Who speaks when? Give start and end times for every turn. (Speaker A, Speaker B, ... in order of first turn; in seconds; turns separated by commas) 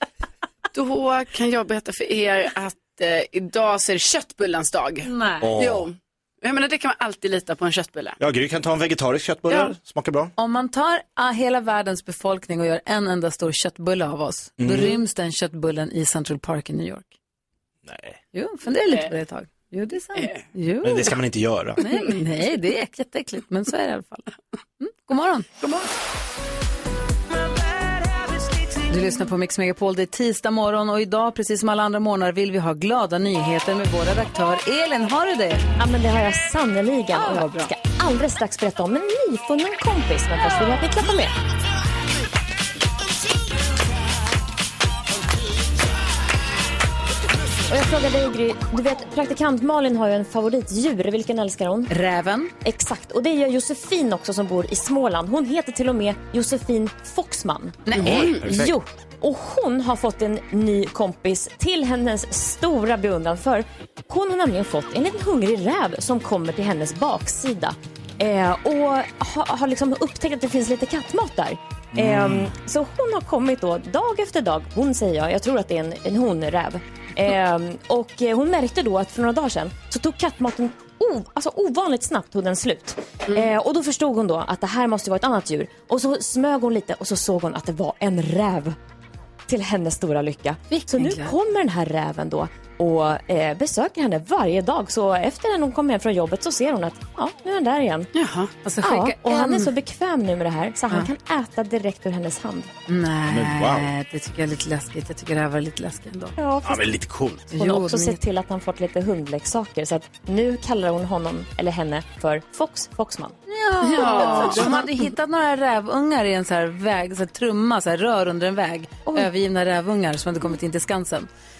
Speaker A: 0.7-8.2, Speaker B: 5.0-5.5, Speaker C: 5.4-5.9, Speaker C: 8.2-10.3, Speaker A: 9.5-9.8, Speaker B: 10.4-17.1, Speaker C: 14.6-15.0, Speaker C: 17.9-18.2, Speaker B: 18.3-21.1, Speaker A: 18.9-19.1, Speaker A: 20.1-20.4, Speaker C: 20.8-21.8, Speaker B: 21.8-24.3, Speaker B: 24.8-25.5, Speaker B: 28.9-35.6, Speaker D: 35.8-41.3, Speaker B: 37.1-37.7, Speaker D: 47.7-51.9, Speaker B: 51.9-52.5, Speaker D: 52.6-57.9, Speaker B: 57.9-58.2, Speaker A: 57.9-58.6, Speaker C: 58.0-58.8, Speaker D: 58.5-88.8, Speaker C: 71.9-72.5, Speaker D: 89.5-98.1, Speaker B: 90.7-91.3, Speaker A: 98.1-98.5, Speaker B: 98.7-99.7, Speaker D: 98.8-102.7, Speaker B: 102.9-106.4, Speaker C: 103.3-103.9, Speaker D: 106.4-107.0, Speaker C: 106.6-107.5, Speaker B: 107.5-108.2, Speaker D: 107.5-113.4, Speaker B: 113.5-121.3, Speaker A: 113.8-114.7